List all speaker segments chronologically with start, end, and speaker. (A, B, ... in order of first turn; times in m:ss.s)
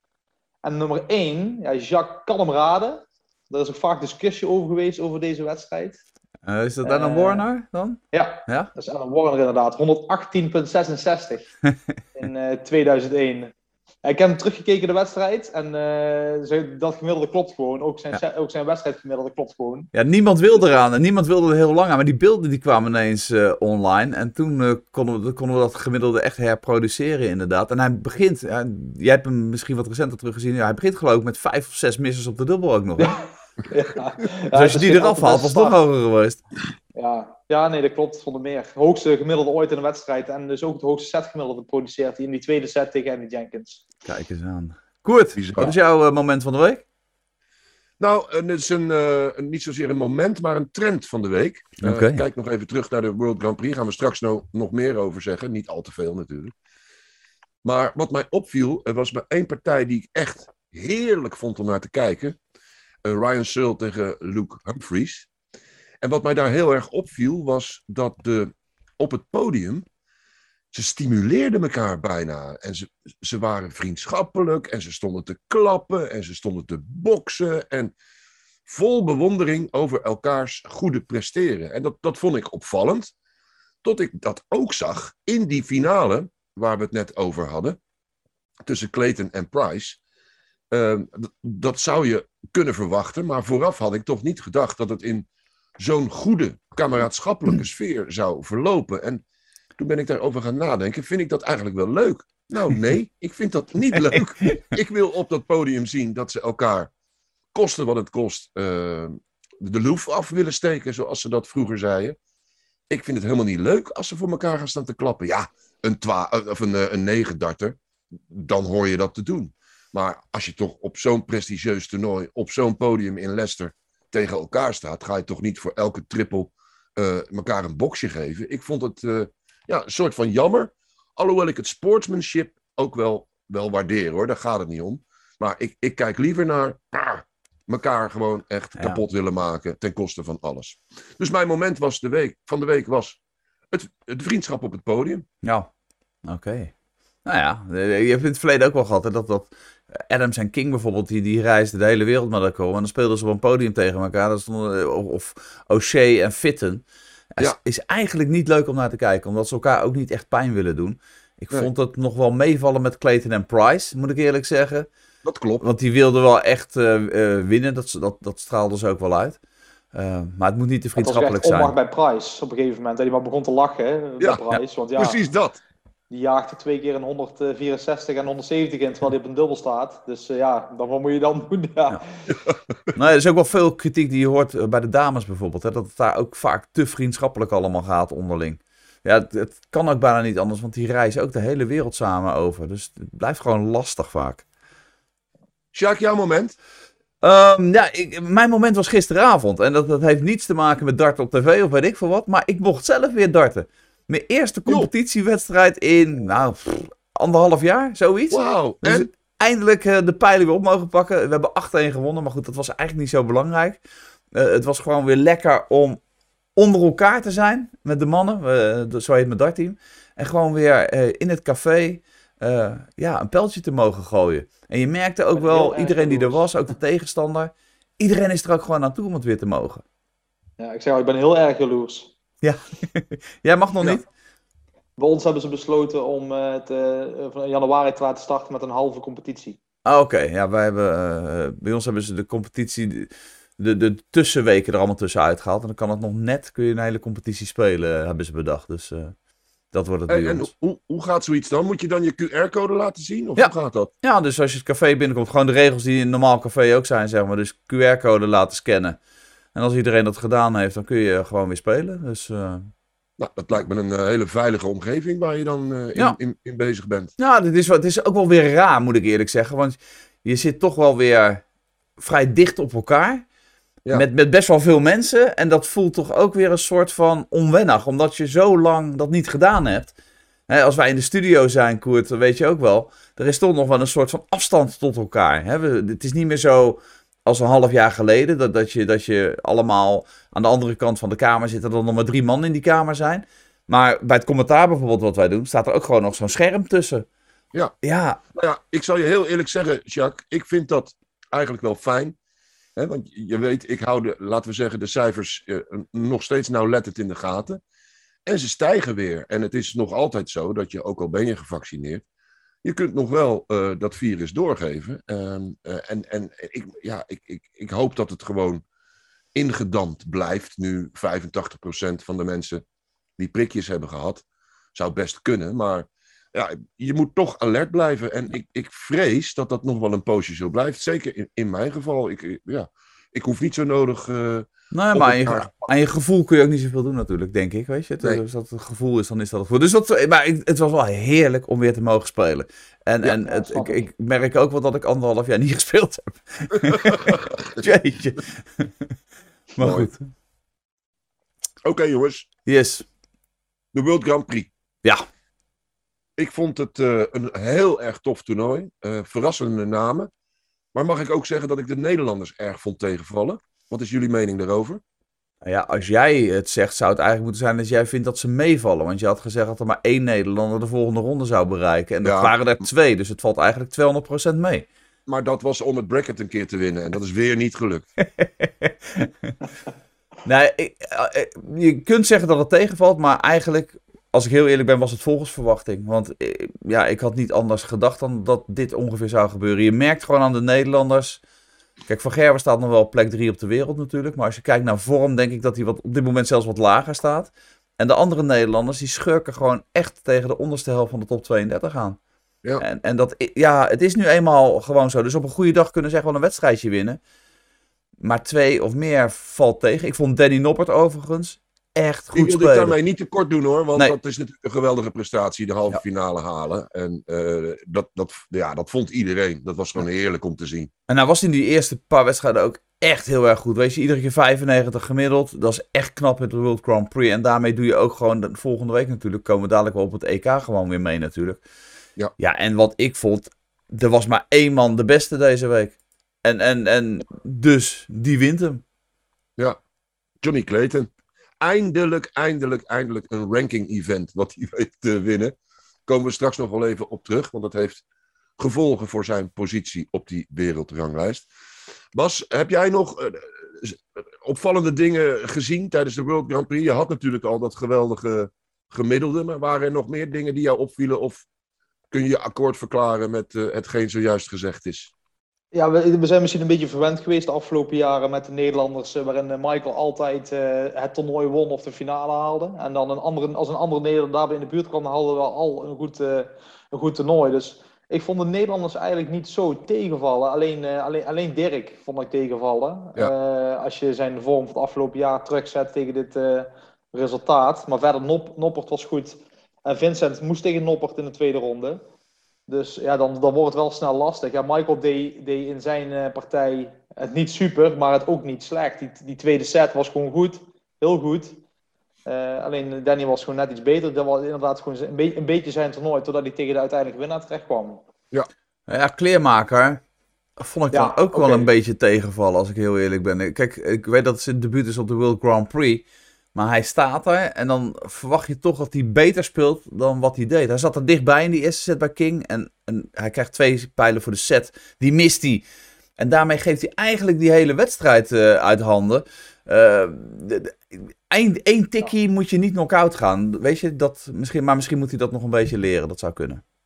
0:00.6-0:06.0 A
0:06.4-0:08.7 B
0:06.8-0:07.5 A
0:08.1-0:11.5 A
0:12.2-0:13.5 A
0:14.0-0:19.9 A
0:19.9-0:33.2 B
0:33.0-0:35.8 A
0:34.5-0:36.4 B
0:37.0-0:43.8 A
0:44.1-0:46.8 B
0:45.4-0:45.8 C
0:48.0-0:56.5 C
0:51.8-0:52.2 B
0:57.6-1:02.4 C
1:03.0-1:05.3 C
1:06.0-1:09.9 C
1:10.7-1:17.9 C
1:18.7-1:23.1 C
1:23.8-1:27.8 C
1:28.7-1:30.0 C
1:30.7-1:35.3 C
1:35.8-1:39.2 C
1:39.8-1:46.9 C
1:44.1-1:44.6 B
1:47.5-1:52.2 C
1:52.9-2:23.2 C
2:23.7-2:25.2 C
2:25.4-2:25.7 B
2:26.2-2:26.7 B
2:27.2-2:36.8 B
2:37.4-2:44.9 B
2:45.2-2:45.7 C
2:45.6-2:49.4 B
2:49.9-2:51.7 B
2:51.0-2:55.2 A
2:55.0-2:55.6 C
2:56.1-3:02.0 A
3:02.3-3:02.8 C
3:03.0-3:14.4 B
3:15.7-3:16.6 C
3:17.2-3:33.8 B
3:28.3-3:29.1 C
3:34.3-3:36.0 B
3:36.6-3:49.8 B
3:45.4-3:46.5 A
3:50.6-3:52.1 A
3:52.4-3:54.0 B
3:55.0-3:59.6 A
3:59.9-4:09.1 B
4:09.7-4:10.5 B
4:10.1-4:13.9 C
4:13.4-4:19.0 B
4:19.6-4:22.7 B
4:23.2-4:27.1 C
4:27.2-4:31.4 B
4:32.0-4:33.2 B
4:33.9-4:40.0 B
4:40.5-4:57.1 B
4:57.8-4:58.2 B
4:58.3-5:02.2 C
5:02.8-5:07.6 C
5:08.3-5:12.0 C
5:12.6-5:18.6 C
5:19.4-5:22.6 C
5:23.2-5:24.2 C
5:24.8-5:35.7 C
5:34.7-5:48.9 B
5:43.2-5:43.9 A
5:46.6-5:47.6 C
5:49.6-5:49.9 C
5:49.6-5:50.1 B
5:51.6-5:52.3 C
5:52.5-5:52.8 B
5:53.7-5:54.5 C
5:56.2-6:00.1 C
6:00.7-6:04.8 C
6:05.4-6:14.7 B
6:12.0-6:12.7 C
6:15.1-6:17.9 C
6:18.0-6:19.3 B
6:20.2-6:31.2 B
6:31.9-6:42.0 B
6:42.6-6:47.0 B
6:48.0-6:52.8 B
6:52.2-7:00.7 C
7:00.9-7:11.4 B
7:12.2-7:18.6 B
7:20.2-7:20.9 C
7:21.4-7:25.4 C
7:25.9-7:27.8 C
7:28.4-7:31.3 C
7:31.9-7:41.2 C
7:41.9-7:44.9 C
7:45.5-8:11.8 A
8:12.5-8:21.4 A
8:22.1-8:27.8 A
8:28.7-8:29.8 B
8:30.4-8:35.8 B
8:30.7-8:31.5 A
8:36.4-8:45.4 B
8:46.0-8:56.4 B